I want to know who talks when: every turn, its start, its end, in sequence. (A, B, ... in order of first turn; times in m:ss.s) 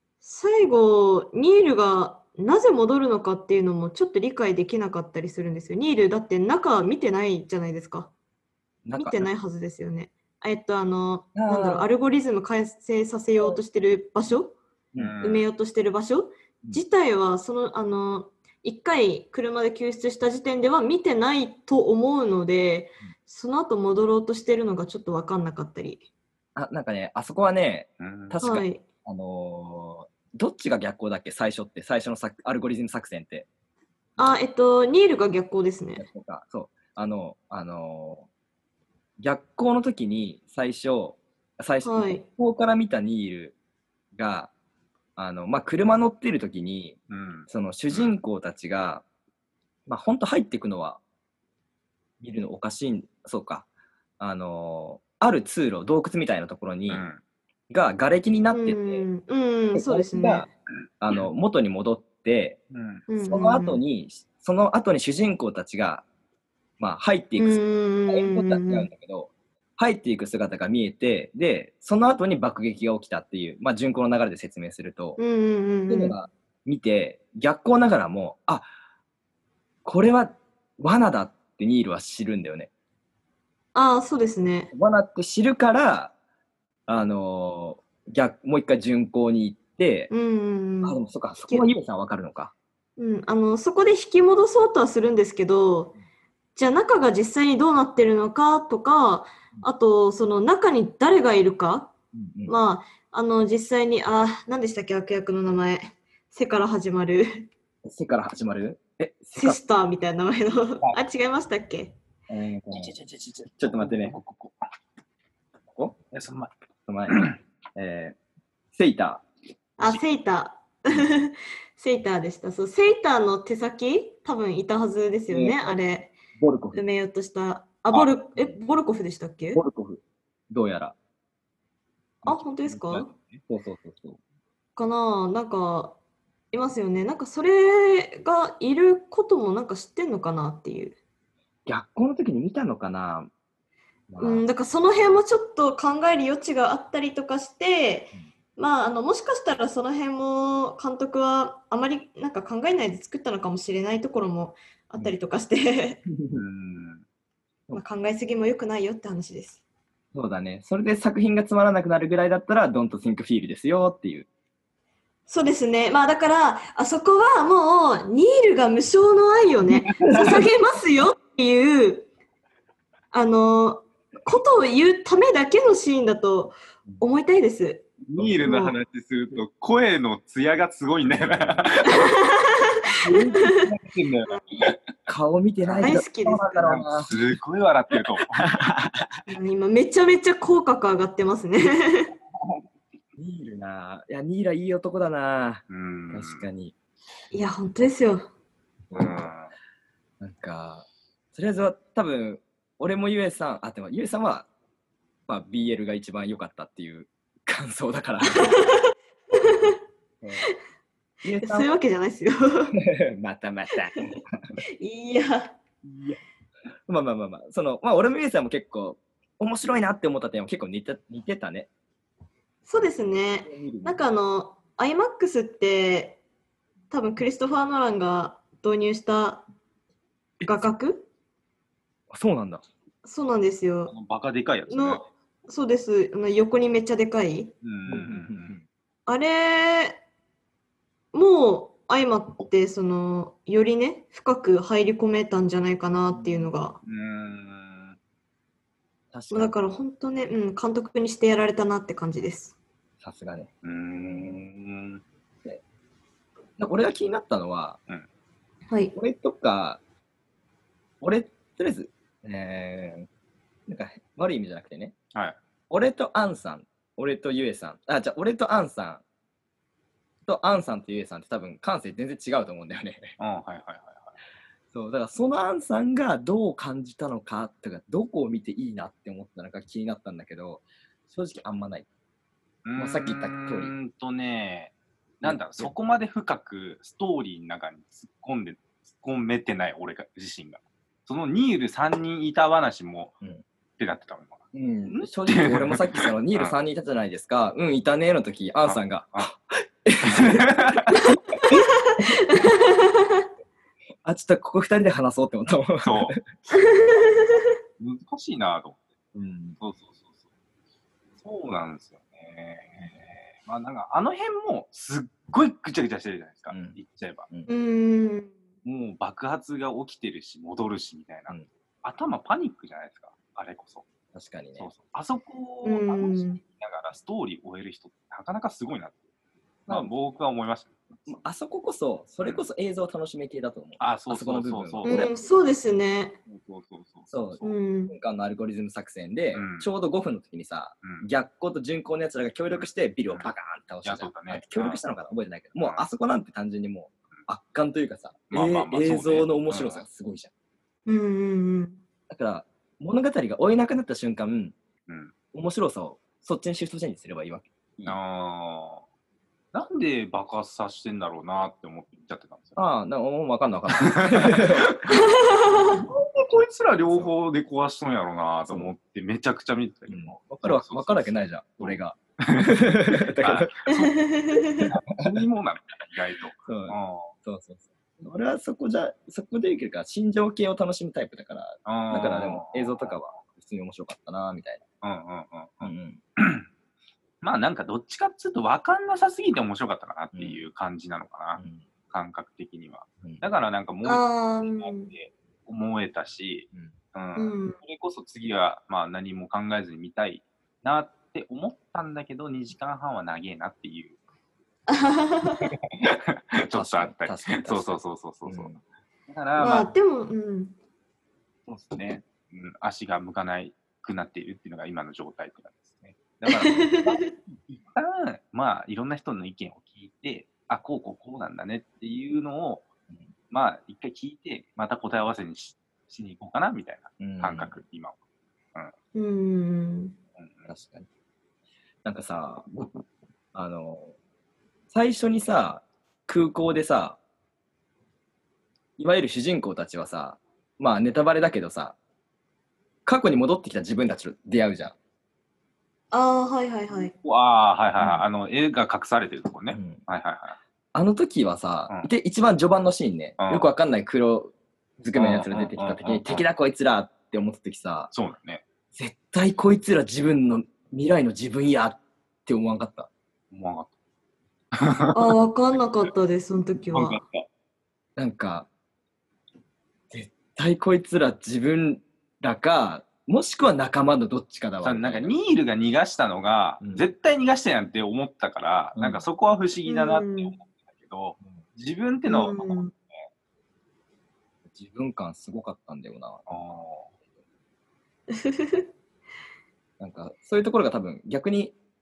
0:00.2-0:08.1 A
0:08.8-0:09.3 B
0:09.0-0:14.6 A
0:11.4-0:11.9 B
0:15.0-0:15.5 C
0:15.2-0:26.1 A
0:26.6-0:33.5 B
0:28.0-0:28.4 C
0:28.4-0:28.8 A
0:34.2-0:36.1 A
0:36.0-0:38.3 B
0:39.2-0:43.6 B
0:41.8-0:42.2 A
0:44.2-0:44.5 B
0:45.2-0:49.0 B
0:47.1-0:48.1 C
0:49.9-0:51.0 B
0:52.2-0:53.7 B
0:54.2-0:57.0 B
0:56.9-0:57.2 C
0:57.7-0:59.1 B
0:58.5-1:00.5 A
0:59.7-1:00.5 B
1:01.0-1:02.6 B
1:02.7-1:03.0 C
1:03.1-1:03.8 A
1:03.3-1:06.0 B
1:06.8-1:15.2 B
1:07.4-1:08.9 A
1:15.2-1:16.2 A
1:15.9-1:18.7 B
1:19.8-1:22.7 B
1:23.8-1:24.7 A
1:24.7-1:26.1 B
1:26.9-1:30.1 B
1:30.1-1:31.7 A
1:30.8-1:32.5 B
1:33.0-1:36.0 A
1:36.6-1:41.9 A
1:42.1-1:42.6 B
1:42.5-1:47.5 A
1:47.8-1:49.6 B
1:49.4-1:52.0 A
1:52.3-1:53.0 B
1:52.7-1:54.6 C
1:53.6-1:54.2 B
1:56.1-1:56.5 C
1:56.9-1:58.2 B
1:57.1-1:57.4 C
1:58.7-1:59.2 B
1:59.8-2:06.2 A
2:05.3-2:05.8 B
2:06.4-2:06.8 B
2:06.8-2:09.6 A
2:09.5-2:11.0 B
2:12.2-2:14.2 B
2:12.3-2:13.1 A
2:13.1-2:13.4 C
2:14.8-2:16.0 A
2:16.5-2:21.0 A
2:21.7-2:23.3 B
2:24.1-2:24.4 B
2:24.2-2:36.0 A
2:36.1-2:36.4 B
2:36.4-2:37.0 C
2:37.7-2:39.6 A
2:40.1-2:44.3 B
2:45.3-2:52.1 A
2:50.0-2:50.5 B
2:53.1-2:57.9 A
2:58.0-3:02.1 C
2:58.4-2:58.8 A
3:01.1-3:01.8 B
3:01.9-3:03.7 A
3:03.0-3:04.8 C
3:05.1-3:07.2 B
3:05.6-3:06.0 C
3:05.8-3:06.5 A
3:06.6-3:08.6 C
3:08.4-3:09.1 B
3:09.3-3:12.1 A
3:13.2-3:16.7 B
3:15.7-3:16.5 C
3:17.3-3:18.3 A
3:18.9-3:19.3 B
3:18.9-3:19.5 C
3:20.2-3:24.5 B
3:25.3-3:28.5 B
3:28.3-3:29.8 A
3:31.2-3:31.7 B
3:31.3-3:32.8 A
3:32.8-3:34.2 B
3:34.8-3:35.6 A
3:35.8-3:36.2 B
3:36.9-3:41.7 B
3:42.7-3:46.2 A
3:43.4-3:44.0 B
3:46.9-3:49.5 A
3:50.4-3:51.1 A
3:52.1-3:52.6 B
3:53.0-3:53.9 A
3:53.9-3:55.1 C
3:54.7-3:57.5 A
3:57.6-3:58.6 C
3:57.9-3:58.7 B
3:59.1-4:00.0 A
4:01.1-4:06.8 A
4:06.1-4:06.6 B
4:06.8-4:08.0 C
4:09.1-4:09.6 B
4:09.3-4:12.6 A
4:13.0-4:14.4 B
4:13.6-4:15.0 C
4:16.6-4:17.8 B
4:19.0-4:19.8 B
4:21.0-4:23.1 B
4:23.7-4:24.9 B
4:25.7-4:29.0 B
4:30.3-4:33.2 B
4:33.2-4:34.2 C
4:34.7-4:41.9 B
4:42.7-4:53.2 C
4:42.8-4:43.7 B
4:45.2-4:45.7 B
4:53.8-4:56.5 C
4:54.5-5:01.1 B
4:58.6-4:59.3 C
5:00.0-5:01.6 C
5:01.5-5:03.2 A
5:04.0-5:06.2 B
5:05.8-5:06.2 C
5:06.5-5:07.4 A
5:07.8-5:09.0 C
5:09.1-5:09.6 B
5:09.6-5:10.1 C
5:11.2-5:17.3 C
5:16.5-5:16.8 B
5:17.5-5:18.3 A
5:18.6-5:23.8 C
5:24.1-5:24.7 B
5:24.6-5:29.0 C
5:25.6-5:26.4 A
5:29.7-5:29.9 B
5:29.7-5:31.1 C
5:31.1-5:35.1 B
5:33.8-5:35.1 C
5:34.8-5:36.2 A
5:36.3-5:37.6 C
5:37.1-5:50.3 B
5:37.4-5:38.0 A
5:39.3-5:39.7 C
5:40.8-5:41.1 C
5:42.5-5:43.3 C
5:43.8-5:44.8 C
5:45.6-5:45.8 C
5:48.3-5:49.8 C
5:50.9-5:51.8 A
5:52.1-5:54.6 B
5:54.9-5:55.1 C
5:55.3-5:58.0 B
5:57.9-5:58.8 C
5:59.5-6:02.6 C
6:02.6-6:04.8 B
6:03.8-6:05.0 C
6:04.9-6:05.7 A
6:05.6-6:05.9 B
6:05.7-6:14.1 C
6:09.9-6:13.5 B
6:13.8-6:14.7 A
6:14.6-6:17.1 C
6:16.4-6:24.6 B
6:21.6-6:23.0 C
6:24.8-6:26.5 C
6:25.6-6:26.0 B
6:27.2-6:44.0 C
6:30.1-6:30.4 B
6:31.4-6:31.7 B
6:33.8-6:34.9 A
6:37.2-6:37.6 A
6:44.7-6:45.5 A
6:45.4-6:48.6 C
6:46.5-6:48.6 B
6:49.1-6:49.7 C
6:49.4-6:50.6 A
6:51.5-7:02.7 C
6:56.3-6:57.1 A
7:03.3-7:08.0 C
7:07.0-7:07.5 B
7:08.9-7:10.0 A
7:10.2-7:10.5 C
7:10.5-7:10.9 B
7:11.8-7:14.0 B
7:14.7-7:17.0 B
7:18.8-7:21.8 B
7:22.9-7:24.8 B
7:25.9-7:26.9 A
7:27.0-7:30.4 C
7:29.5-7:29.8 B
7:30.7-7:37.9 B
7:33.2-7:33.5 C
7:34.9-7:36.2 C
7:37.9-7:38.4 C
7:38.7-7:42.9 B
7:43.3-7:43.7 C
7:44.6-7:45.2 C
7:45.0-7:47.0 A
7:46.7-7:47.3 C
7:48.0-7:48.5 B
7:49.9-7:55.1 B
7:54.6-8:02.8 C
7:56.6-7:56.9 B
7:58.8-7:59.0 B
7:59.7-8:00.4 A
8:02.1-8:02.7 A
8:04.5-8:06.3 B
8:06.3-8:06.9 C
8:08.1-8:08.7 A
8:09.8-8:11.6 B